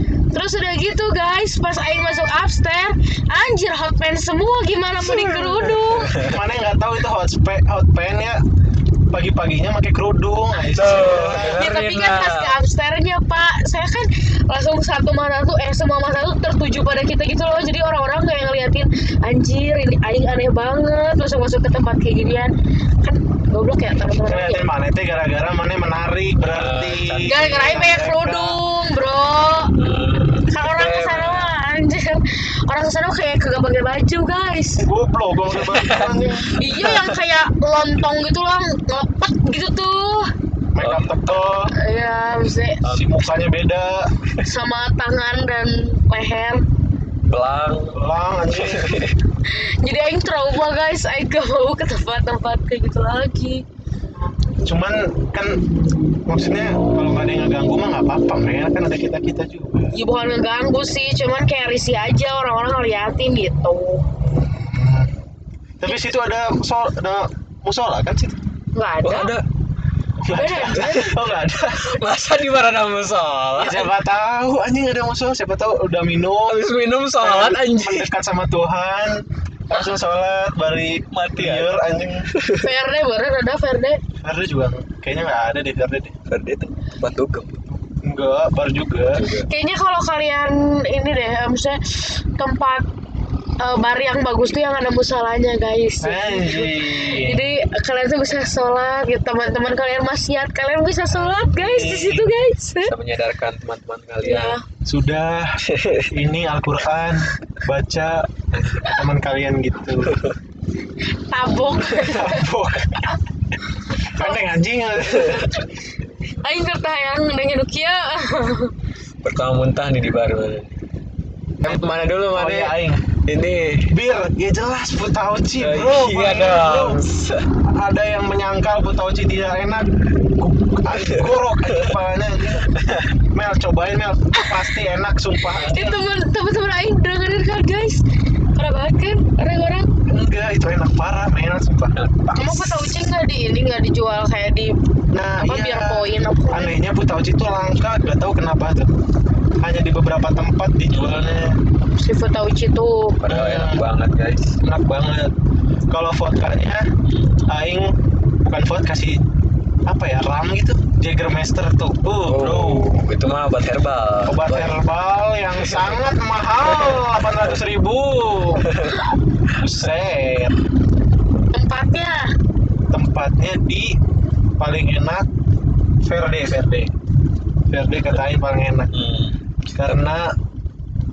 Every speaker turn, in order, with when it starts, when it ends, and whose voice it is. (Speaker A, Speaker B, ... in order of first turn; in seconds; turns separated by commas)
Speaker A: 0.3-6.2, Speaker B: 5.0-6.4, Speaker C: 6.1-8.4, Speaker C: 9.1-11.7, Speaker B: 10.7-12.6, Speaker A: 11.4-24.7, Speaker C: 24.2-28.6, Speaker B: 26.4-27.9, Speaker A: 27.2-29.8, Speaker B: 29.8-31.5, Speaker A: 30.5-34.8, Speaker C: 34.8-36.5, Speaker B: 35.5-37.2, Speaker A: 35.9-40.3, Speaker C: 40.7-41.7, Speaker B: 40.8-41.4, Speaker A: 41.7-42.8, Speaker B: 42.8-43.2, Speaker C: 42.9-44.1, Speaker A: 44.4-46.6, Speaker B: 47.2-49.2, Speaker C: 47.9-49.0, Speaker A: 49.5-53.6, Speaker C: 54.6-55.7, Speaker C: 56.2-59.9, Speaker A: 59.9-64.1, Speaker C: 64.3-65.1, Speaker C: 65.8-68.4, Speaker A: 68.7-69.4, Speaker B: 69.0-69.5, Speaker C: 70.2-72.0, Speaker A: 70.3-71.2, Speaker B: 70.7-71.2, Speaker B: 71.8-73.9, Speaker C: 73.6-76.7, Speaker B: 76.5-78.1, Speaker C: 77.2-82.3, Speaker B: 81.1-82.7, Speaker A: 82.6-84.0, Speaker C: 84.2-86.1, Speaker B: 86.3-87.7, Speaker C: 87.9-89.3, Speaker B: 89.1-89.5, Speaker A: 89.4-92.9, Speaker A: 93.6-102.9, Speaker C: 96.0-97.5, Speaker C: 101.5-102.3, Speaker B: 102.8-104.6, Speaker A: 104.2-104.6, Speaker C: 104.8-110.2, Speaker B: 105.6-106.1, Speaker B: 110.0-110.3, Speaker A: 111.3-112.4, Speaker C: 111.9-113.1, Speaker A: 114.0-114.5, Speaker C: 114.1-115.6, Speaker A: 116.4-118.7, Speaker B: 119.2-120.8, Speaker B: 121.6-123.9, Speaker C: 122.3-123.0, Speaker C: 123.9-127.0, Speaker B: 125.6-127.5, Speaker C: 127.5-132.8, Speaker B: 130.9-131.9, Speaker B: 132.7-133.1, Speaker C: 133.3-135.9, Speaker B: 135.5-135.9, Speaker A: 135.6-138.0, Speaker A: 138.5-139.9, Speaker C: 140.1-142.9, Speaker A: 142.3-144.8, Speaker C: 145.1-148.9, Speaker A: 145.4-146.7, Speaker C: 149.6-151.6, Speaker B: 150.9-151.5, Speaker A: 151.9-153.2, Speaker B: 153.2-154.6, Speaker C: 153.3-153.8, Speaker C: 154.6-155.3, Speaker C: 155.9-156.8, Speaker C: 157.5-159.2, Speaker C: 159.8-162.9, Speaker B: 162.3-164.8, Speaker C: 164.2-168.7, Speaker B: 165.6-166.0, Speaker B: 166.6-167.1, Speaker B: 168.6-169.0, Speaker C: 169.5-170.6, Speaker A: 171.5-172.3, Speaker C: 172.9-174.0, Speaker C: 174.6-175.3, Speaker C: 176.0-176.9, Speaker C: 177.7-178.9, Speaker B: 178.9-180.0, Speaker C: 179.7-180.3